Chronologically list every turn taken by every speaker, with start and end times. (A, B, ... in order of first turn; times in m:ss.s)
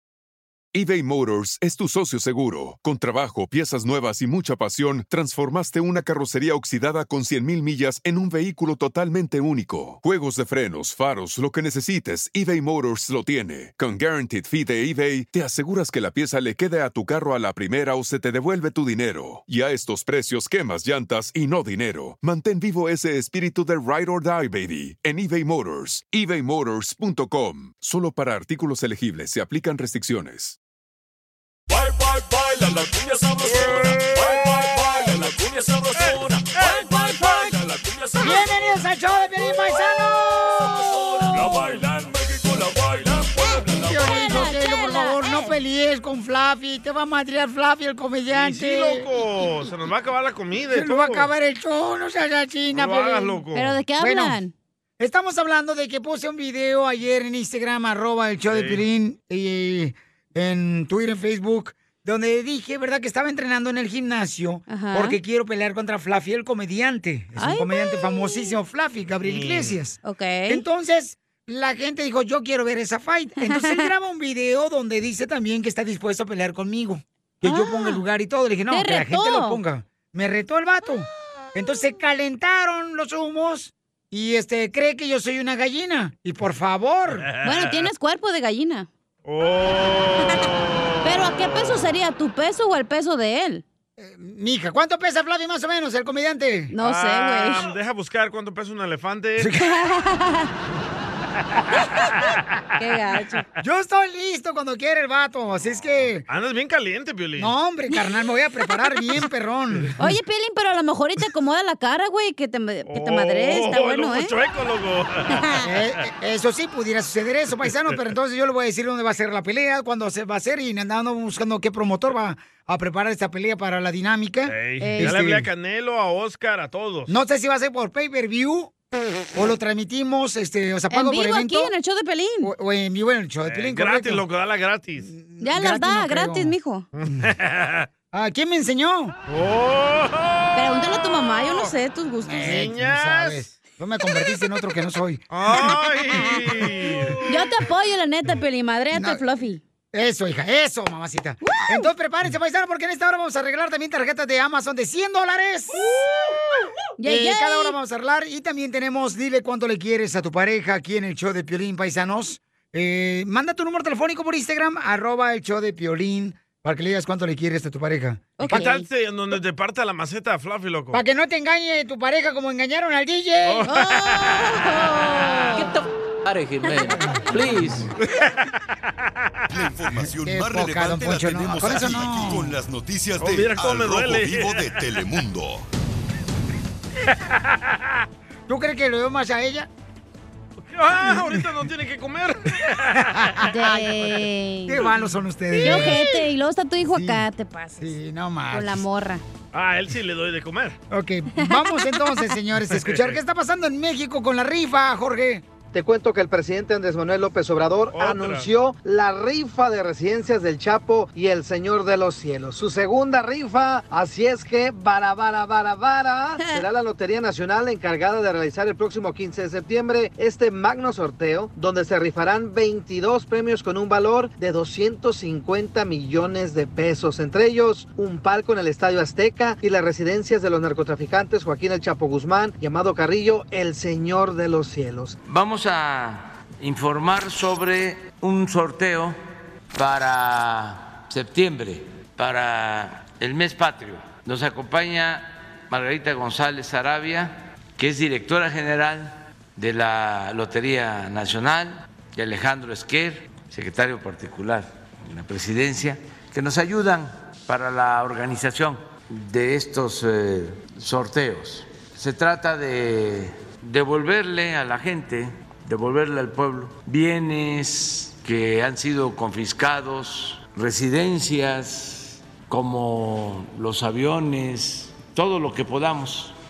0:00.7-0:30.6 A
0:31.7-0:38.5 B
0:33.4-0:34.6 C
0:36.0-0:37.5 C
0:38.2-0:41.8 D
0:39.8-0:44.2 B
0:43.4-0:49.0 D
0:44.0-0:45.5 E
0:48.3-0:51.3 C
0:50.7-0:53.4 D
0:52.7-0:53.8 C
0:53.5-0:54.5 E
0:54.0-0:54.4 D
0:55.0-1:10.0 D
0:58.4-0:58.8 C
1:04.7-1:05.2 E
1:07.4-1:08.5 E
1:09.2-1:09.8 C
1:10.0-1:10.6 E
1:10.5-1:27.3 D
1:13.4-1:13.9 E
1:17.4-1:18.0 E
1:18.7-1:19.6 E
1:27.3-1:27.9 C
1:27.4-1:28.9 E
1:29.2-1:31.8 C
1:30.2-1:30.5 E
1:31.0-1:33.6 E
1:34.0-1:36.7 D
1:36.7-1:37.7 E
1:36.8-1:39.5 C
1:39.6-1:40.5 E
1:42.8-1:43.4 E
1:43.6-1:46.2 D
1:46.3-1:47.5 C
1:47.4-1:49.9 D
1:49.8-1:50.0 C
1:50.0-1:54.3 E
1:52.8-1:55.5 C
1:55.6-2:05.5 D
2:04.5-2:07.1 C
2:04.8-2:05.2 E
2:07.1-2:08.7 D
2:09.3-2:11.7 D
2:10.9-2:12.5 E
2:12.4-2:14.2 D
2:13.5-2:15.1 C
2:15.0-2:16.5 D
2:15.4-2:16.8 E
2:16.9-2:17.9 C
2:18.1-2:19.1 D
2:19.3-2:21.7 C
2:20.5-2:22.7 E
2:22.2-2:26.2 D
2:22.4-2:23.5 C
2:25.3-2:27.2 C
2:27.2-2:29.6 E
2:28.9-2:29.2 D
2:29.9-2:36.0 D
2:31.4-2:31.9 E
2:37.0-2:37.8 E
2:37.0-2:48.8 D
2:48.4-2:48.8 E
2:48.4-2:51.0 C
2:50.9-2:53.6 D
2:53.4-2:54.5 C
2:53.6-2:55.8 E
2:55.6-2:57.9 F
2:56.6-2:56.9 E
2:58.0-2:58.5 C
2:59.5-3:05.6 G
3:00.1-3:02.5 D
3:03.2-3:04.8 C
3:07.1-3:08.0 C
3:08.5-3:09.7 D
3:10.7-3:13.5 C
3:11.1-3:11.4 D
3:13.4-3:13.9 D
3:13.5-3:14.9 E
3:14.6-3:16.0 D
3:15.5-3:16.2 C
3:15.6-3:17.9 E
3:16.9-3:17.2 D
3:17.8-3:18.8 D
3:18.5-3:19.2 E
3:19.5-3:20.8 C
3:20.9-3:25.4 D
3:21.4-3:22.2 E
3:22.7-3:23.2 C
3:25.7-3:55.2 H
3:27.9-3:28.5 C
3:36.4-3:36.6 E
3:55.2-3:59.2 F
3:59.7-4:36.3 F